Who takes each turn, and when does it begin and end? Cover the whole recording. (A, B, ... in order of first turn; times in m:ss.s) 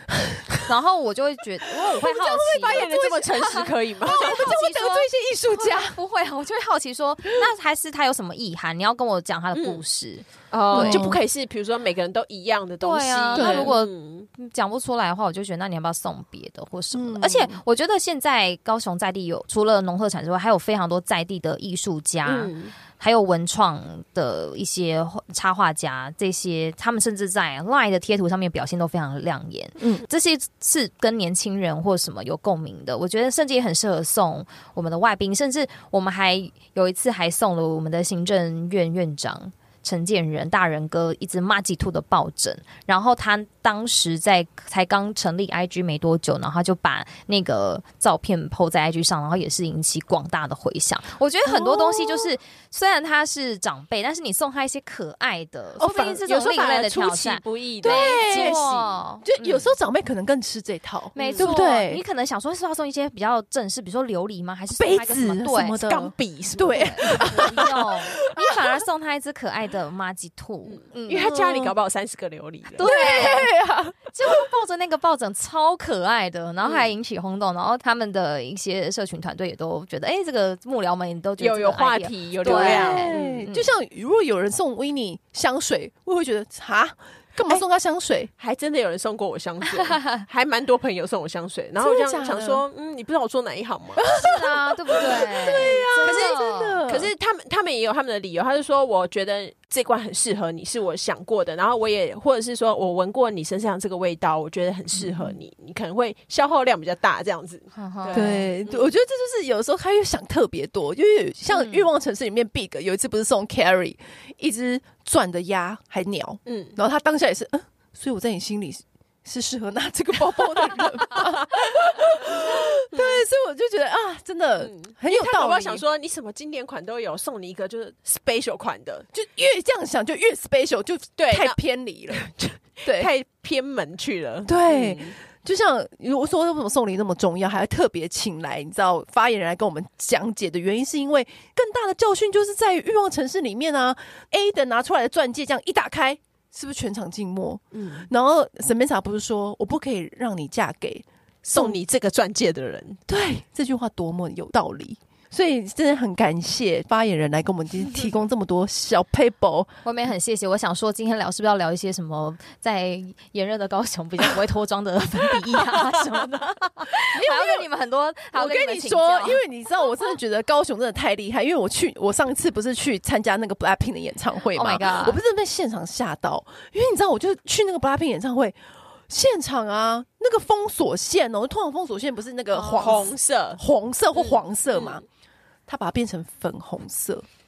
0:00.5-0:11.1 A
0:01.8-0:06.0 B
0:02.6-0:04.5 C
0:09.5-0:09.8 C
0:10.5-0:14.3 C
0:10.7-0:11.2 B
0:12.8-0:59.7 A
0:13.3-0:13.7 B
0:16.9-0:17.6 B
0:22.2-0:22.7 C
0:29.8-0:30.0 B
0:51.4-0:52.3 B
0:55.8-0:58.6 C
0:57.8-1:02.0 B
1:01.1-1:05.8 A
1:01.2-1:01.6 C
1:04.8-1:08.8 B
1:05.8-1:07.7 C
1:06.6-1:11.3 A
1:10.7-1:13.3 C
1:11.1-1:11.7 B
1:12.8-1:13.5 A
1:12.8-1:14.3 B
1:14.1-1:23.7 A
1:16.6-1:16.9 C
1:21.4-1:23.4 C
1:22.4-1:28.3 B
1:28.4-1:34.0 C
1:29.8-1:30.2 A
1:31.8-1:32.6 B
1:34.0-1:37.1 B
1:34.1-1:36.8 A
1:35.4-1:48.9 C
1:47.7-1:48.4 A
1:48.1-2:05.8 B
1:51.5-1:51.8 A
1:56.4-1:56.8 C
2:02.9-2:03.2 C
2:04.6-2:09.1 C
2:09.1-2:12.3 B
2:11.2-2:11.6 C
2:12.1-2:15.2 C
2:12.8-2:13.1 B
2:14.4-2:31.8 B
2:27.7-2:28.1 C
2:31.4-2:33.0 C
2:33.1-2:39.7 B
2:39.8-2:49.4 A
2:47.1-2:47.6 B
2:48.3-2:58.6 B
2:54.5-2:55.2 A
2:59.1-3:05.0 B
3:02.5-3:03.0 A
3:02.7-3:03.6 C
3:04.2-3:05.0 C
3:05.7-3:07.2 B